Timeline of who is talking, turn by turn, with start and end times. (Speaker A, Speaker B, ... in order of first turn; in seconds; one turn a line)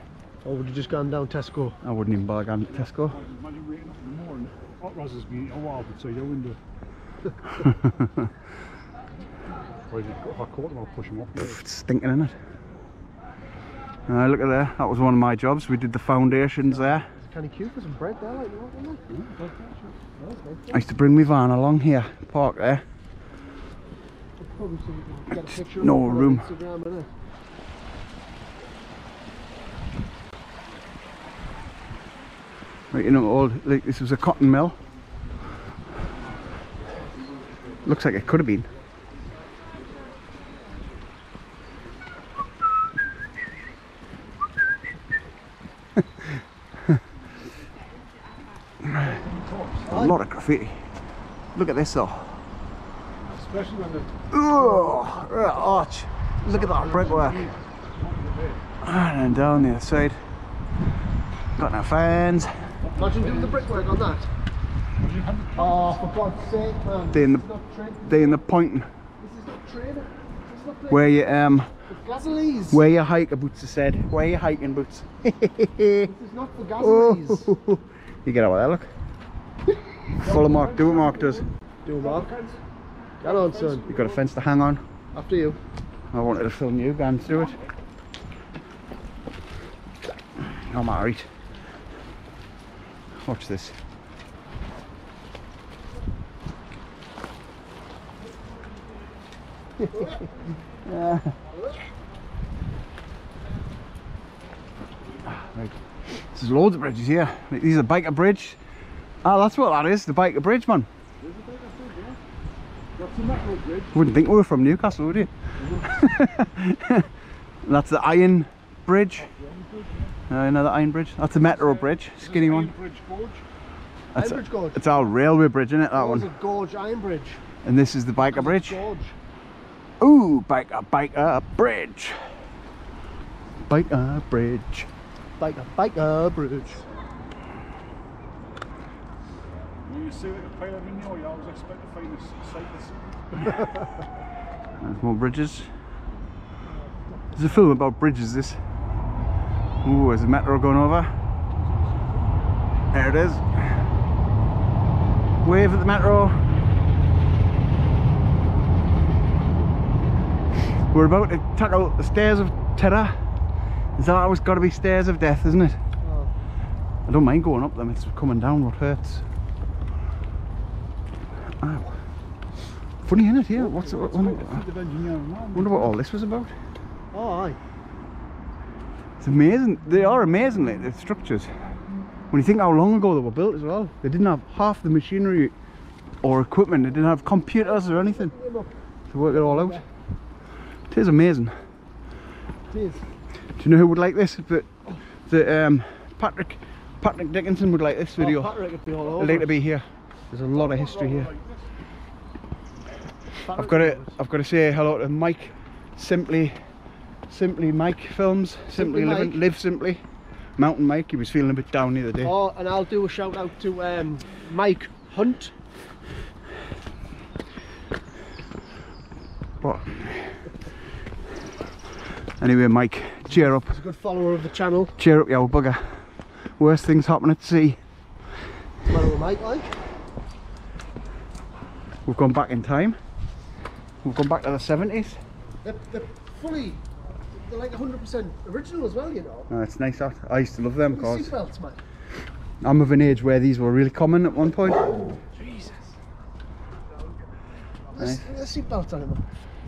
Speaker A: 0.4-1.8
Speaker B: 1.8-3.2
Speaker C: 2.8-6.6
Speaker C: 9.9-11.6
Speaker B: 11.4-12.4
Speaker B: 14.1-17.1
Speaker A: 16.7-19.0
Speaker C: 19.1-20.0
Speaker A: 20.2-20.8
Speaker B: 20.7-22.8
Speaker A: 24.4-27.1
Speaker B: 25.5-26.5
Speaker B: 32.9-34.8
Speaker B: 37.9-38.7
Speaker C: 48.9-50.0
Speaker A: 49.9-50.2
Speaker B: 49.9-51.0
Speaker B: 51.5-52.4
Speaker C: 53.2-55.1
Speaker B: 54.3-57.5
Speaker C: 56.5-58.6
Speaker B: 58.8-60.3
Speaker B: 61.6-62.8
Speaker C: 62.8-63.8
Speaker A: 63.0-64.3
Speaker C: 65.0-66.0
Speaker A: 65.6-68.4
Speaker B: 67.1-67.5
Speaker B: 68.0-68.9
Speaker A: 69.2-71.1
Speaker B: 70.9-71.7
Speaker A: 71.9-72.9
Speaker B: 72.7-76.1
Speaker A: 76.0-77.6
Speaker B: 76.8-78.9
Speaker C: 80.2-82.6
Speaker B: 80.2-81.5
Speaker A: 81.8-82.3
Speaker A: 83.2-83.9
Speaker C: 83.2-84.2
Speaker B: 83.9-84.8
Speaker A: 85.1-85.6
Speaker B: 86.1-87.6
Speaker B: 90.4-91.3
Speaker B: 93.2-93.8
Speaker B: 100.8-101.3
Speaker B: 105.2-108.6
Speaker B: 109.2-110.9
Speaker C: 111.2-112.2
Speaker C: 113.0-114.0
Speaker B: 113.9-117.1
Speaker C: 115.6-116.1
Speaker B: 117.6-119.3
Speaker C: 119.2-120.2
Speaker B: 120.3-122.7
Speaker C: 121.3-123.5
Speaker B: 124.1-126.3
Speaker A: 124.2-125.0
Speaker A: 125.9-127.4
Speaker B: 127.6-128.8
Speaker A: 128.2-129.2
Speaker B: 130.0-132.2
Speaker B: 133.6-134.9
Speaker A: 135.4-136.8
Speaker C: 139.8-143.7
Speaker B: 144.8-145.7
Speaker B: 147.3-148.6
Speaker B: 149.8-151.3
Speaker C: 151.5-152.4
Speaker B: 152.9-153.8
Speaker B: 155.4-156.4
Speaker B: 160.9-163.3
Speaker B: 163.9-165.8
Speaker A: 166.0-166.3
Speaker B: 167.1-169.2
Speaker B: 171.6-172.0
Speaker B: 173.0-174.6
Speaker C: 173.5-175.9
Speaker B: 175.6-176.6
Speaker A: 177.1-177.6
Speaker B: 179.2-181.8
Speaker B: 182.3-185.5
Speaker B: 186.2-188.3
Speaker A: 187.6-189.9
Speaker B: 189.1-189.8
Speaker B: 190.9-191.6
Speaker A: 192.7-193.1
Speaker B: 193.6-198.6
Speaker A: 198.2-199.6
Speaker B: 199.1-201.3
Speaker C: 200.5-201.7
Speaker A: 203.4-204.2
Speaker B: 203.6-206.6
Speaker B: 207.2-210.0
Speaker A: 208.7-209.4
Speaker B: 210.6-212.3
Speaker A: 212.2-215.5
Speaker B: 219.6-220.4
Speaker B: 222.4-223.7
Speaker A: 223.4-225.0
Speaker B: 225.0-227.8
Speaker A: 228.8-230.0
Speaker B: 232.1-233.0
Speaker B: 234.0-235.2
Speaker A: 235.6-239.5
Speaker B: 239.5-241.3
Speaker A: 240.9-241.8
Speaker B: 242.6-245.0
Speaker A: 245.4-245.9
Speaker A: 247.9-249.2
Speaker B: 248.0-248.3